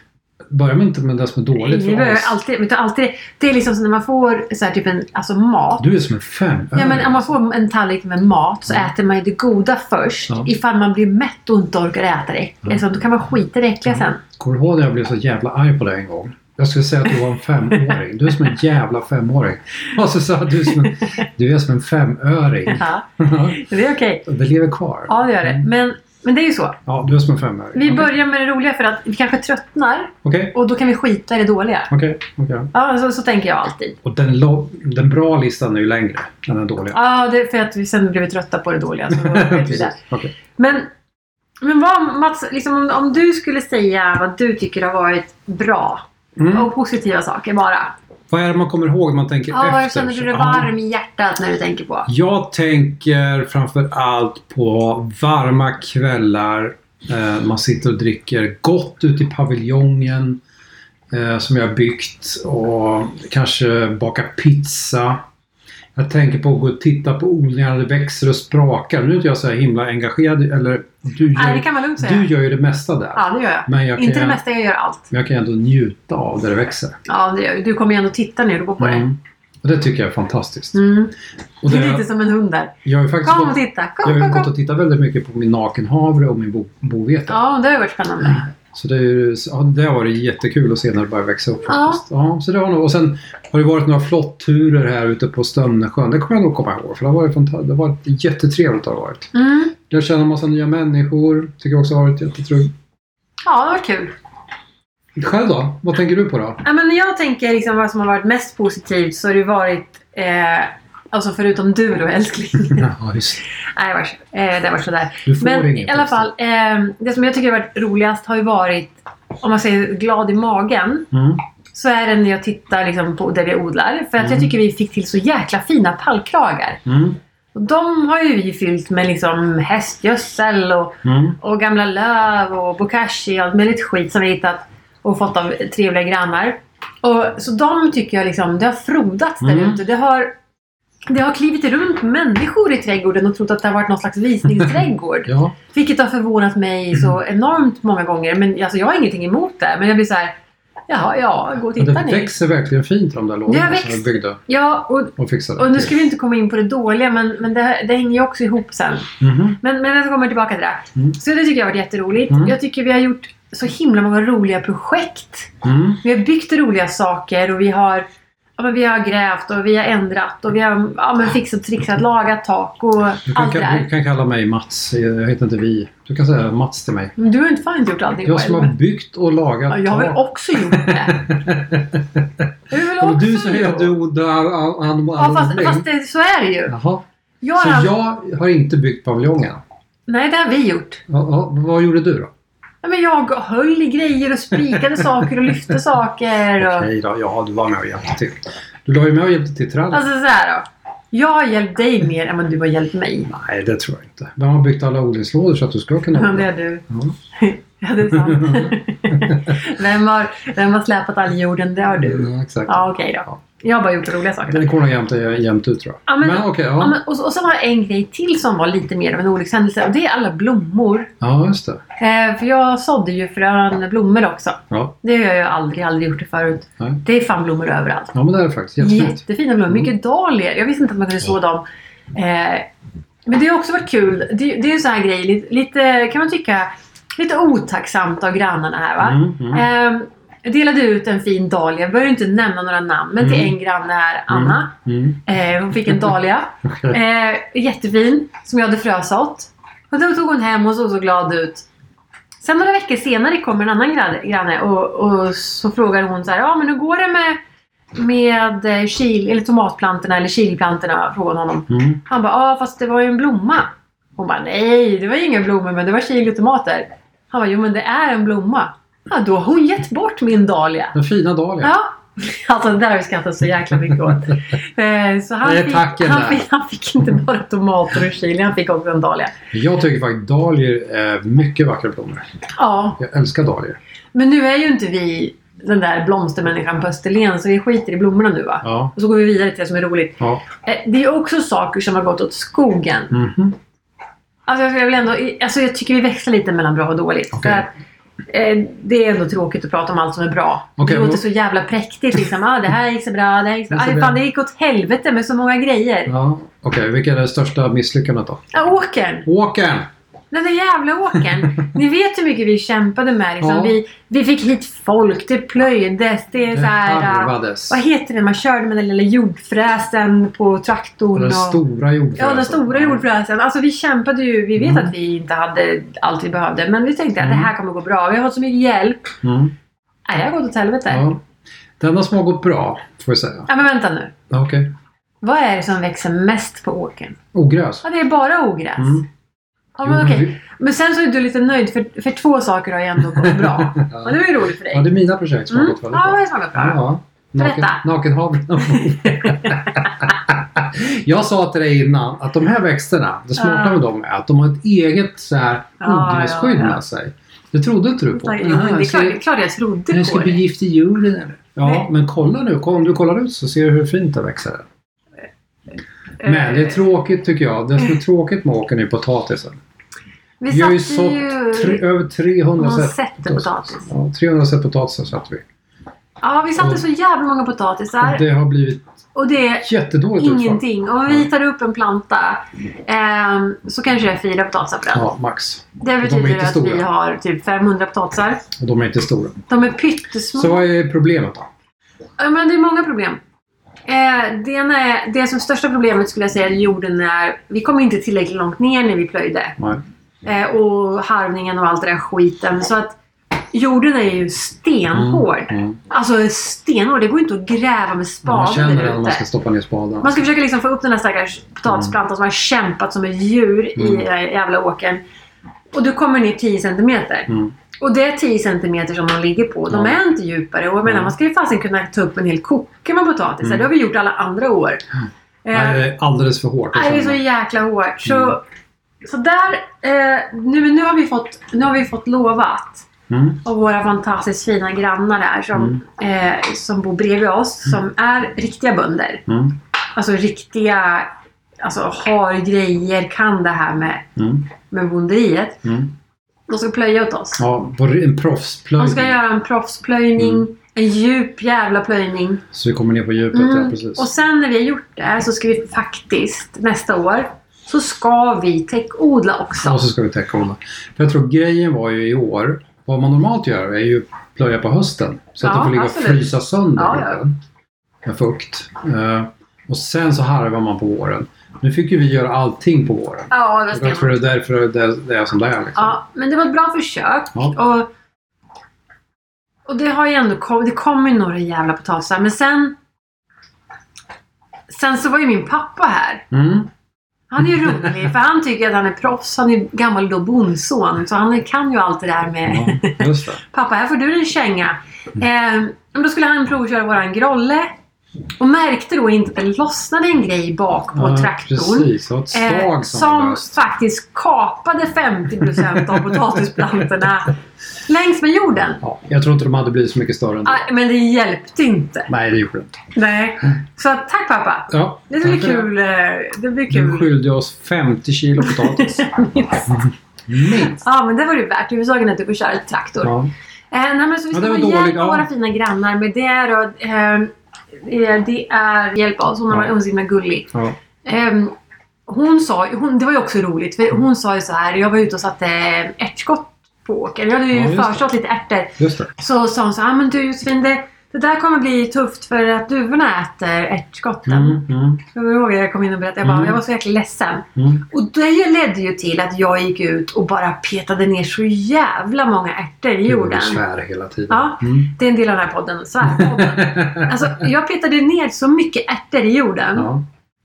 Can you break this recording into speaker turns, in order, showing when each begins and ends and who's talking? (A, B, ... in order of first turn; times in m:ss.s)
0:00.5-0:02.4 A
0:01.6-0:05.8 B
0:05.8-0:07.3 A
0:06.7-0:14.2 B
0:13.8-0:23.6 A
0:20.7-0:21.2 B
0:22.7-0:24.2 B
0:24.2-0:25.7 A
0:25.1-0:26.8 B
0:26.8-0:28.1 A
0:27.8-0:31.9 B
0:30.2-0:30.5 A
0:31.9-0:32.7 A
0:32.7-0:34.0 B
0:34.0-0:37.0 A
0:36.9-0:40.0 B
0:39.1-0:40.3 A
0:40.6-0:40.9 B
0:41.6-0:47.9 B
0:46.4-0:46.7 A
0:48.3-0:50.7 A
0:49.5-0:52.1 B
0:52.1-1:00.4 A
1:01.1-1:05.2 A
1:05.9-1:14.4 A
1:11.3-1:12.3 B
1:13.2-1:15.1 B
1:15.1-1:17.0 A
1:17.1-1:19.1 B
1:18.8-1:20.8 A
1:20.7-1:21.1 B
1:21.6-1:22.1 A
1:21.6-1:24.5 B
1:22.8-1:27.4 A
1:27.3-1:28.5 B
1:28.3-1:39.3 A
1:31.7-1:32.0 B
1:39.3-1:39.7 B
1:39.9-1:42.7 A
1:43.5-1:44.2 B
1:45.2-1:46.6 A
1:46.6-1:52.9 B
1:52.7-1:53.4 A
1:53.5-2:01.1 B
1:55.3-1:56.3 A
2:01.1-2:01.4 A
2:01.7-2:06.8 B
2:04.2-2:04.5 A
2:06.8-2:07.2 A
2:07.5-2:20.3 B
2:11.0-2:11.4 A
2:19.4-2:19.8 A
2:21.1-2:30.3 B
2:24.5-2:25.5 A
2:30.9-2:32.3 B
2:31.7-2:34.4 A
2:33.5-2:48.0 B
2:35.2-2:36.0 A
2:39.2-2:39.6 A
2:42.3-2:42.6 A
2:45.6-2:46.0 A
2:48.6-2:53.9 B
2:53.3-2:57.1 A
2:57.2-2:58.7 B
2:58.2-3:05.8 A
2:59.7-3:01.2 B
3:02.7-3:04.0 B
3:05.2-3:06.7 B
3:06.7-3:07.0 A
3:07.4-3:07.9 B
3:07.6-3:09.6 A
3:10.1-3:11.0 B
3:11.1-3:12.3 A
3:12.8-3:16.9 B
3:16.6-3:20.0 A
3:19.9-3:23.3 B
3:23.3-3:27.1 A
3:26.2-3:34.7 B
3:28.1-3:29.6 A
3:32.0-3:32.9 A
3:34.5-3:37.0 A
3:36.1-3:41.1 B
3:41.2-3:41.8 A
3:42.0-3:48.1 B
3:48.1-3:49.9 A
3:48.8-3:52.7 B
3:53.3-4:04.7 B
3:59.0-3:59.6 A
4:03.2-4:03.6 A
4:04.3-4:05.2 A
4:05.3-4:11.7 B
4:05.9-4:06.1 A
4:06.7-4:07.0 A
4:12.4-4:17.4 B
4:18.0-4:31.0 B
4:21.7-4:22.0 A
4:31.0-4:31.7 A
4:31.6-4:39.3 B
4:35.4-4:36.5 A
4:39.5-4:42.3 A
4:42.6-4:43.0 B
4:43.0-4:43.8 A
4:44.1-4:53.2 B
4:48.6-4:48.9 A
4:50.2-4:50.4 A
4:53.1-4:53.6 A
4:54.5-4:57.7 B
4:57.3-4:57.7 A
4:58.3-5:06.1 B
5:00.8-5:01.2 A
5:03.7-5:04.2 A
5:06.1-5:08.4 A
5:08.5-5:09.3 B
5:09.2-5:09.9 A
5:10.3-5:21.6 B
5:13.4-5:13.8 A
5:16.5-5:17.8 A
5:21.1-5:23.0 A
5:22.2-5:29.2 B
5:24.5-5:24.9 A
5:27.2-5:27.5 A
5:29.2-5:29.5 A
5:30.1-5:31.0 B
5:30.9-5:31.2 A
5:31.8-5:33.5 A
5:33.5-5:34.1 B
5:34.3-5:34.7 A
5:35.2-5:37.2 B
5:37.3-5:37.8 A
5:37.8-5:39.0 B
5:38.8-5:39.0 A
5:39.8-5:44.9 B
5:39.8-5:40.4 A
5:43.2-5:59.2 A
5:45.5-5:46.8 B
5:47.4-5:47.8 B
5:48.6-5:49.6 B
5:53.4-5:53.8 B
5:55.8-5:56.8 B
5:58.1-6:00.4 B
5:59.9-6:04.7 A
6:01.6-6:01.9 B
6:06.2-6:06.9 B
6:06.2-6:09.6 A
6:10.4-6:11.8 B
6:10.5-6:15.4 A
6:12.6-6:13.9 B
6:16.2-6:18.2 B
6:16.6-6:16.8 A
6:18.0-6:18.8 A
6:19.1-6:25.1 B
6:19.6-6:21.3 A
6:24.9-6:26.9 A
6:25.8-6:28.5 B
6:28.6-6:29.4 A
6:29.5-6:30.7 B
6:30.3-6:31.5 A
6:32.2-6:33.2 B
6:33.9-6:39.6 B
6:40.2-6:43.0 B
6:43.5-6:49.2 B
6:44.9-6:45.8 A
6:48.2-6:50.2 A
6:50.0-6:55.0 B
6:51.7-6:51.9 A
6:53.8-6:54.1 A
6:55.7-7:04.8 B
6:59.7-7:00.0 A
7:00.8-7:01.1 A
7:03.4-7:03.7 A
7:05.4-7:05.9 B
7:05.5-7:07.2 A
7:06.7-7:08.4 B
7:08.1-7:08.4 A
7:09.0-7:12.9 B
7:13.1-7:13.4 A
7:13.4-7:19.2 B
7:19.3-7:19.6 A
7:20.0-7:24.1 B
7:24.2-7:24.5 A
7:24.7-7:25.6 B
7:25.6-7:25.9 A
7:26.5-7:27.4 B
7:27.4-7:29.2 A
7:28.8-7:32.4 B
7:30.2-7:30.4 A
7:32.5-7:34.1 A
7:33.3-7:39.9 B
7:39.6-7:47.4 A
7:45.4-7:47.2 B
7:48.0-7:56.0 A
7:53.3-7:54.2 B
7:55.8-7:57.9 B
7:59.7-8:02.8 B
8:04.7-8:06.2 B
8:06.3-8:06.7 A
8:07.3-8:17.7 B
8:12.5-8:13.4 A
8:18.4-8:27.3 B
8:20.9-8:23.6 A
8:25.6-8:26.2 A
8:27.8-8:28.8 B
8:28.8-8:30.6 A
8:30.4-8:32.1 B
8:32.1-8:32.8 A
8:32.9-8:37.1 B
8:34.7-8:35.7 A
8:36.7-8:39.1 A
8:38.4-8:39.7 B
8:40.3-8:40.8 A
8:40.4-8:43.2 B
8:43.0-8:43.3 A
8:43.7-8:50.5 B
8:44.3-8:45.3 A
8:51.0-8:51.5 B
8:52.1-9:13.6 B
8:57.5-8:58.1 A
8:58.8-8:59.1 A
9:04.3-9:05.0 A
9:06.2-9:06.6 A
9:07.6-9:07.8 A
9:13.1-9:14.9 A
9:14.3-9:19.9 B
9:16.0-9:17.4 A
9:19.8-9:20.0 A